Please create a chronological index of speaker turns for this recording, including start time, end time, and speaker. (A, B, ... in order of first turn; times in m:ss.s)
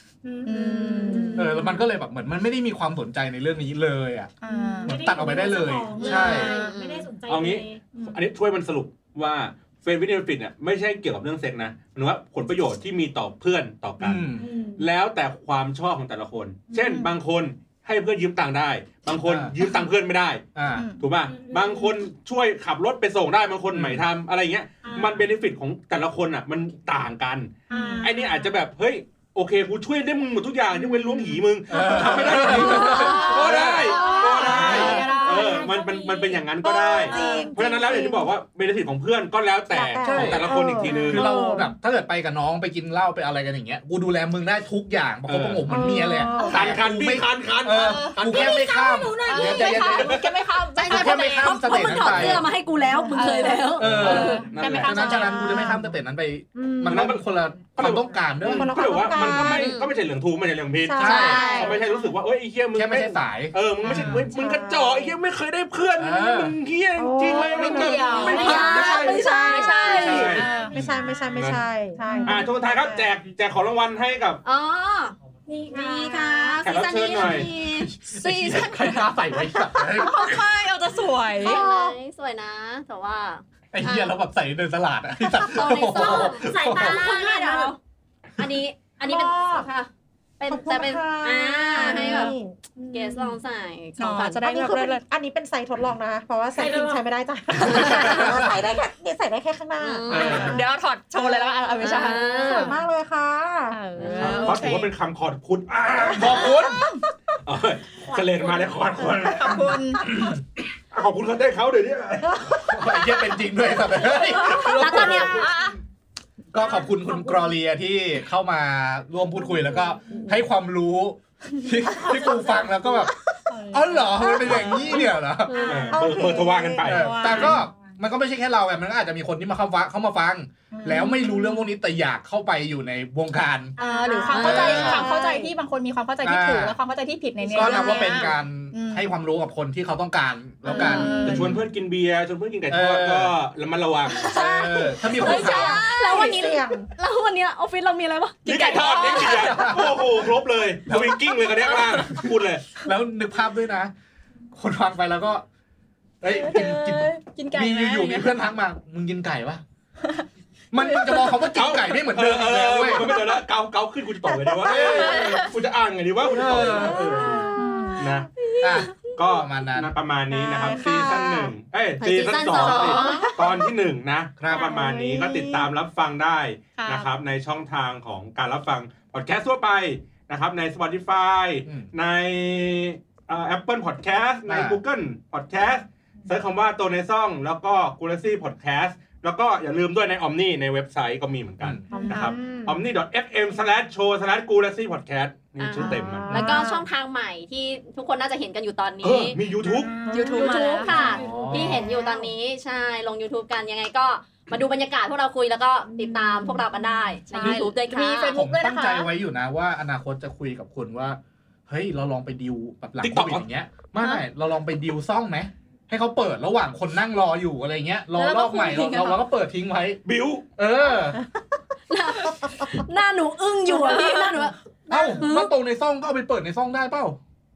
0:00.2-0:01.4 A
0:00.4-0:01.6 B
0:00.9-0:01.9 C
0:01.3-0:06.5 D
0:04.4-0:05.1 B
0:04.8-0:08.2 A
0:06.0-0:06.8 B
0:06.4-0:07.1 E
0:07.3-0:41.3 F
0:14.0-0:14.5 D
0:14.4-0:14.9 A
0:16.8-0:17.1 B
0:19.2-0:19.5 D
0:19.6-0:19.9 B
0:20.5-0:20.9 D
0:20.7-0:21.0 B
0:21.2-0:22.0 A
0:23.7-0:24.1 D
0:24.8-0:25.3 A
0:27.7-0:28.4 A
0:27.7-0:28.1 B
0:31.7-0:35.0 D
0:32.3-0:35.9 B
0:32.9-0:35.0 C
0:34.9-0:36.4 A
0:36.6-0:38.3 C
0:37.1-0:37.5 B
0:37.2-0:37.4 A
0:39.7-0:41.7 C
0:40.0-0:50.2 D
0:45.2-0:48.6 F
0:45.7-0:46.8 C
0:47.7-0:48.7 B
0:48.4-0:49.6 C
0:48.6-0:49.9 A
0:49.2-0:52.3 B
0:49.8-0:50.3 F
0:50.8-0:54.5 E
0:50.8-0:52.5 D
0:52.9-0:53.5 C
0:53.0-0:55.8 B
0:53.7-0:59.4 D
0:53.8-0:55.3 F
0:56.5-0:57.2 C
0:56.8-0:57.2 F
0:57.8-1:09.2 F
0:58.4-0:59.8 C
0:59.4-0:59.9 E
1:00.8-1:01.8 C
1:01.0-1:01.6 D
1:01.3-1:01.7 B
1:02.7-1:04.3 D
1:03.8-1:04.2 B
1:04.3-1:05.2 C
1:06.0-1:06.6 D
1:07.0-1:09.9 C
1:07.4-1:10.8 B
1:08.2-1:10.4 E
1:08.3-1:09.1 D
1:09.8-1:10.5 F
1:10.1-1:11.1 D
1:10.7-1:13.0 C
1:11.3-1:11.6 F
1:12.0-1:12.3 A
1:12.0-1:12.4 B
1:12.2-1:14.4 F
1:14.4-1:15.1 E
1:15.5-1:16.7 A
1:15.7-1:17.9 E
1:16.6-1:17.5 F
1:17.2-1:20.4 D
1:18.1-1:19.2 B
1:19.6-1:20.1 C
1:19.9-1:21.6 B
1:21.4-1:21.9 C
1:21.4-1:24.1 E
1:23.7-1:27.1 D
1:25.4-1:27.8 E
1:25.9-1:27.7 A
1:28.4-1:32.3 E
1:29.0-1:29.7 C
1:30.5-1:33.4 C
1:31.8-1:32.3 B
1:32.9-1:34.4 E
1:34.0-1:35.0 B
1:34.4-1:40.6 C
1:36.5-1:37.0 A
1:37.7-1:38.0 B
1:37.8-1:38.5 D
1:39.8-1:40.6 E
1:40.1-1:42.7 B
1:40.1-1:40.4 D
1:40.2-1:40.5 F
1:41.2-1:44.4 C
1:41.8-1:42.7 E
1:42.3-1:42.7 A
1:43.7-1:44.9 B
1:44.0-1:46.7 F
1:46.1-1:46.8 D
1:47.4-1:49.7 F
1:49.0-1:50.0 B
1:49.5-1:50.4 D
1:50.9-1:53.0 F
1:52.2-1:55.1 C
1:52.7-1:55.5 D
1:54.4-1:55.5 E
1:54.8-1:55.8 B
1:56.5-2:05.8 D
1:56.6-1:57.1 A
2:02.0-2:02.3 C
2:03.5-2:05.0 B
2:04.4-2:05.0 C
2:05.5-2:06.0 E
2:05.6-2:07.5 F
2:05.9-2:06.9 C
2:06.8-2:07.6 B
2:06.8-2:13.8 D
2:10.7-2:11.6 B
2:13.8-2:14.9 A
2:13.8-2:19.1 B
2:14.3-2:14.9 E
2:14.3-2:15.1 D
2:14.8-2:15.5 C
2:16.2-2:16.8 D
2:17.5-2:21.6 D
2:20.6-2:21.6 B
2:20.7-2:21.1 C
2:21.1-2:24.2 F
2:22.7-2:23.3 D
2:24.1-2:26.4 B
2:24.2-2:25.8 D
2:24.2-2:28.4 E
2:25.6-2:26.9 C
2:28.4-2:30.0 B
2:28.4-2:32.6 F
2:29.2-2:30.0 D
2:30.9-2:32.3 D
2:32.8-2:33.9 D
2:34.5-2:35.4 D
2:36.2-2:39.6 D
2:36.3-2:38.4 B
2:40.7-2:43.3 D
2:40.8-2:41.4 B
2:41.4-2:48.3 F
2:44.6-2:45.4 D
2:44.7-2:45.5 B
2:46.2-2:47.5 D
2:47.0-2:47.8 C
2:47.2-2:48.9 B
2:48.6-2:49.9 D
2:49.0-3:16.5 F
2:50.5-2:51.5 C
2:50.5-2:50.8 B
2:52.0-2:53.3 E
2:52.2-2:53.7 B
2:53.0-2:53.3 C
2:54.4-2:54.7 D
2:54.5-2:55.6 C
2:56.8-2:57.1 B
3:04.4-3:04.8 D
3:11.6-3:12.0 D
3:11.9-3:12.8 C
3:15.6-3:19.4 E
3:15.8-3:16.8 C
3:19.0-3:19.9 F
3:19.5-3:21.5 A
3:20.1-3:21.2 B
3:20.2-3:28.4 E
3:20.9-3:22.2 C
3:21.1-3:21.9 D
3:26.0-3:26.6 C
3:27.3-3:29.1 B
3:28.3-3:40.0 D
3:33.0-3:34.2 F
3:38.1-3:39.2 B
3:40.0-3:40.5 F
3:40.6-3:41.2 D
3:41.9-3:44.6 E
3:43.8-3:44.4 B
3:44.9-3:47.2 D
3:44.9-3:45.3 C
3:45.2-3:45.5 E